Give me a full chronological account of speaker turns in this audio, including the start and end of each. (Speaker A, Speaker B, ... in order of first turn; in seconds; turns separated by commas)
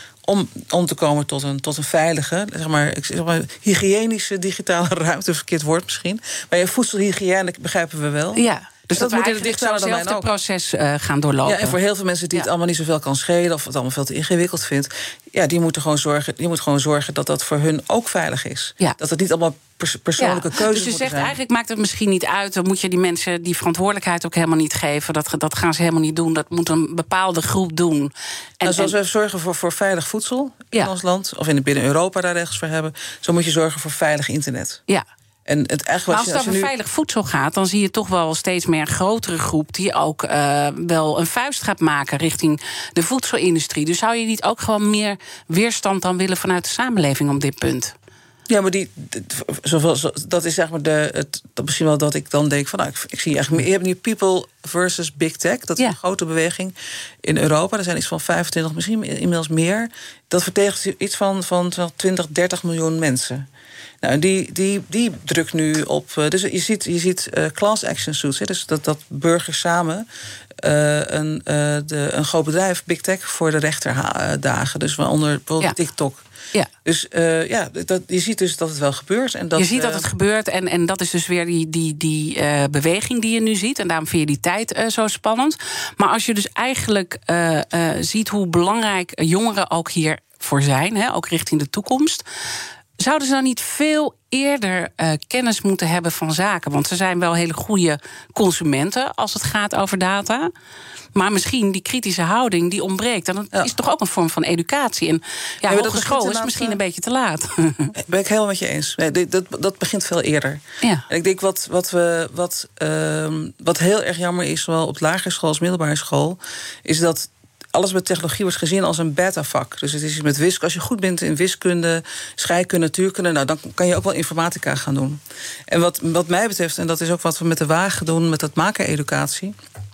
Speaker A: 0.3-8.4, Speaker B: 8.3-11.8, Speaker A: 8.9-10.3, Speaker A: 11.4-21.3, Speaker B: 20.2-28.9, Speaker A: 28.6-34.8, Speaker A: 35.5-36.7, Speaker B: 36.1-47.9, Speaker A: 48.5-63.5, Speaker A: 64.0-70.0, Speaker A: 70.6-76.2, Speaker A: 76.8-80.0, Speaker B: 79.5-92.2, Speaker B: 93.0-100.5, Speaker B: 101.1-107.9, Speaker A: 105.6-106.8, Speaker A: 108.0-129.5